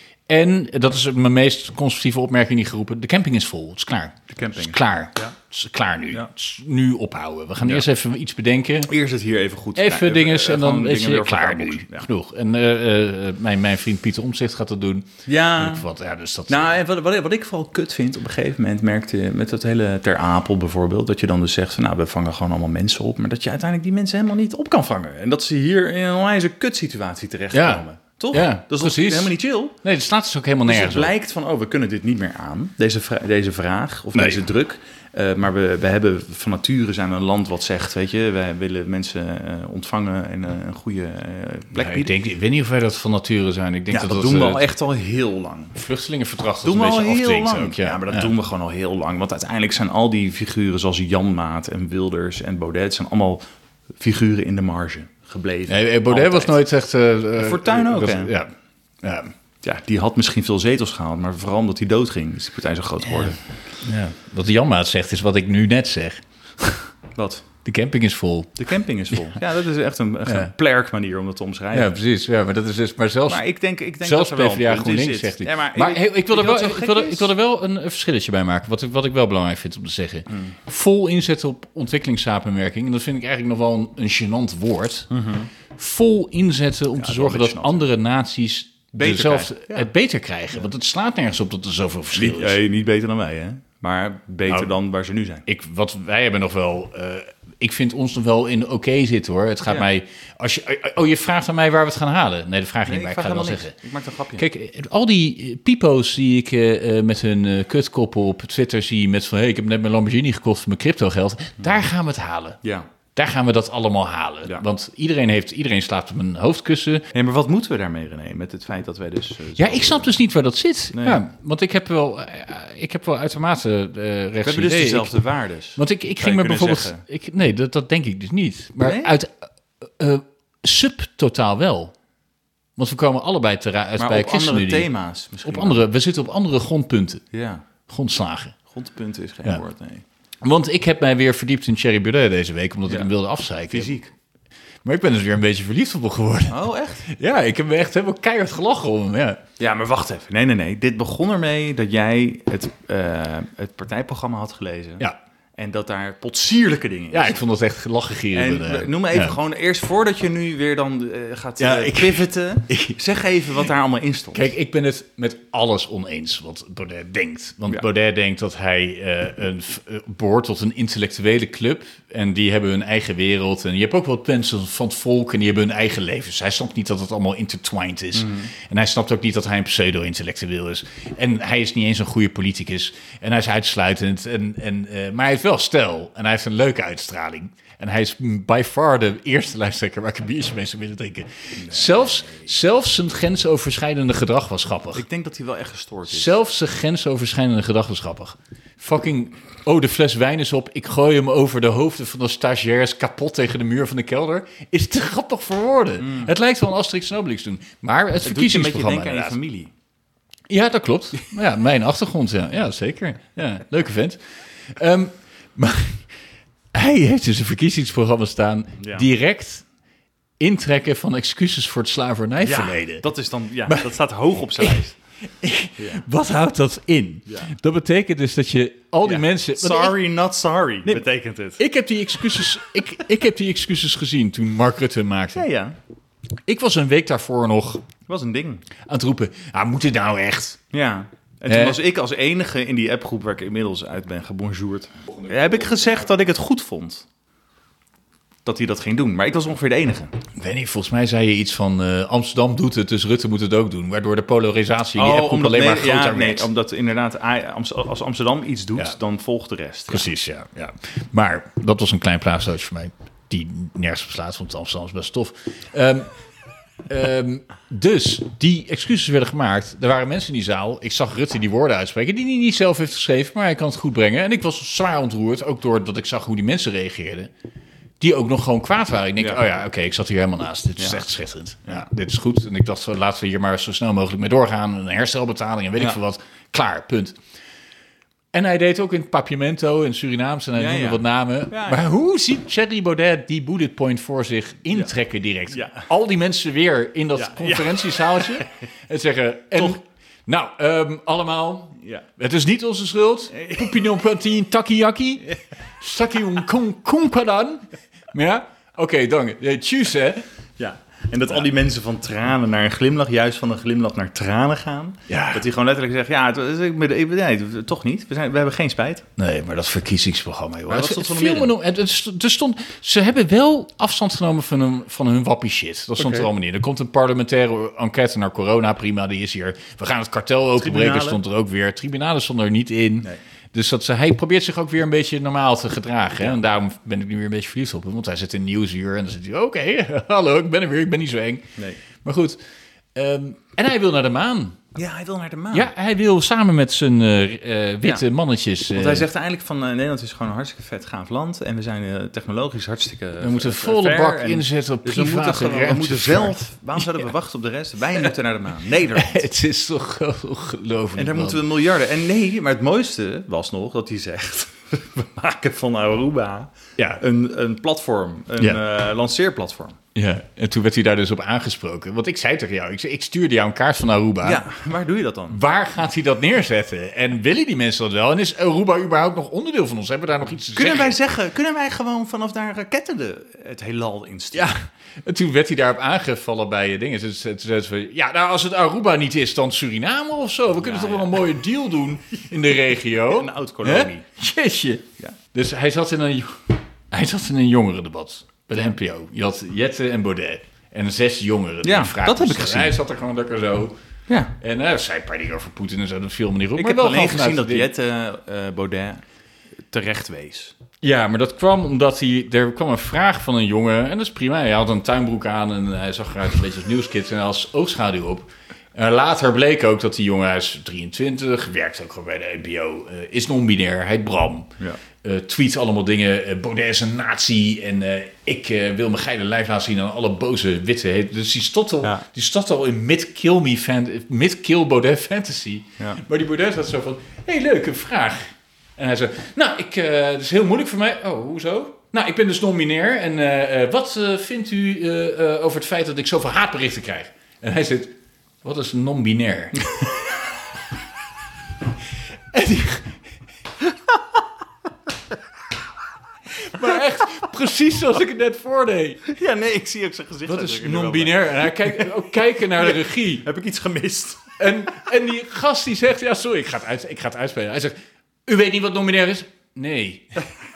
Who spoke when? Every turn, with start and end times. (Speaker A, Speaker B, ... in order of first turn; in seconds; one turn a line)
Speaker A: 0.3-8.9
Speaker B: 4.3-5.3
Speaker B: 8.8-12.1
Speaker A: 9.7-16.7
Speaker B: 15.2-15.8
Speaker B: 16.5-29.7
Speaker A: 27.5-31.1
Speaker B: 30.6-42.1
Speaker A: 34.1-34.4
Speaker A: 41.8-44.7
Speaker B: 43.9-45.8
Speaker A: 45.7-48.3
Speaker B: 46.6-53.4
Speaker B: 54.0-56.6
Speaker A: 55.7-58.5
Speaker B: 57.4-58.3
Speaker A: 59.0-59.3
Speaker B: 59.6-63.4
Speaker A: 63.8-66.9
Speaker B: 67.1-67.4
Speaker A: 67.6-68.6
Speaker B: 68.6-71.9
Speaker A: 69.1-69.4
Speaker A: 71.7-73.4
Speaker B: 73.3-77.3
Speaker A: 74.0-85.1
Speaker B: 80.3-80.6
Speaker B: 85.1-85.5
Speaker A: 85.7-92.6
Speaker B: 87.0-87.9
Speaker B: 88.9-89.9
Speaker B: 92.1-95.4
Speaker A: 95.5-103.7
Speaker B: 102.8-104.5
Speaker A: 104.4-112.6
Speaker B: 112.6-112.9
Speaker A: 113.1-117.1
Speaker B: 117.1-120.2
Speaker A: 119.6-125.2
Speaker B: 120.9-121.2
Speaker B: 124.4-127.0
Speaker A: 125.8-131.9
Speaker B: 128.8-129.1
Speaker A: 132.8-134.9
Speaker B: 134.0-135.8
Speaker A: 135.4-137.2
Speaker B: 137.3-137.6
Speaker A: 137.9-138.6
Speaker B: 138.7-140.0
Speaker A: 140.4-144.0
Speaker B: 143.7-144.1
Speaker A: 144.8-149.4
Speaker B: 146.5-147.1
Speaker B: 149.6-155.1
Speaker B: 155.6-157.4
Speaker A: 157.1-159.4
Speaker B: 158.3-164.5
Speaker A: 161.6-162.9
Speaker A: 164.3-195.0
Speaker B: 178.1-178.5
Speaker B: 191.6-192.5
Speaker B: 194.9-196.3
Speaker A: 196.1-209.4
Speaker B: 206.0-206.3
Speaker B: 208.2-209.7
Speaker A: 210.5-216.1
Speaker A: 216.7-219.6
Speaker B: 218.8-219.1
Speaker A: 220.4-223.1
Speaker B: 222.4-225.0
Speaker A: 223.7-223.9
Speaker A: 224.6-229.9
Speaker B: 225.8-226.0
Speaker B: 227.3-227.5
Speaker B: 229.0-231.6
Speaker A: 231.6-235.4
Speaker B: 235.3-235.8
Speaker A: 236.5-237.8
Speaker B: 238.1-238.6
Speaker A: 238.8-240.6
Speaker B: 240.7-247.1
Speaker A: 241.5-241.8
Speaker B: 248.4-250.1
Speaker A: 250.4-256.5
Speaker B: 254.9-260.1
Speaker A: 259.9-266.1
Speaker A: 266.9-277.3
Speaker A: 278.0-287.1
Speaker B: 280.8-281.0
Speaker A: 288.3-310.2
Speaker B: 290.6-291.9
Speaker B: 295.5-295.9
Speaker B: 297.1-298.6
Speaker B: 303.3-303.8
Speaker B: 310.6-319.1
Speaker A: 315.1-315.4
Speaker A: 319.2-341.5
Speaker B: 320.7-321.5
Speaker B: 326.0-326.3
Speaker B: 330.6-331.2
Speaker A: 342.0-342.4
Speaker A: 342.9-344.6
Speaker B: 344.7-345.7
Speaker A: 345.5-349.1
Speaker B: 348.7-359.2
Speaker A: 353.2-357.1
Speaker A: 358.9-361.4
Speaker B: 360.9-369.8
Speaker A: 369.9-374.4
Speaker B: 374.2-375.4
Speaker A: 375.3-380.9
Speaker B: 380.5-384.5
Speaker A: 384.3-403.8
Speaker B: 390.6-391.2
Speaker B: 393.0-394.1
Speaker B: 401.6-402.8
Speaker B: 404.1-404.3
Speaker A: 404.4-407.7
Speaker B: 406.5-409.0
Speaker B: 409.7-410.6
Speaker A: 410.8-424.5
Speaker A: 425.0-449.7
Speaker A: 452.3-453.0
Speaker A: 456.4-459.0
Speaker B: 459.0-464.4
Speaker A: 460.3-463.2
Speaker A: 464.4-467.7
Speaker A: 468.2-470.3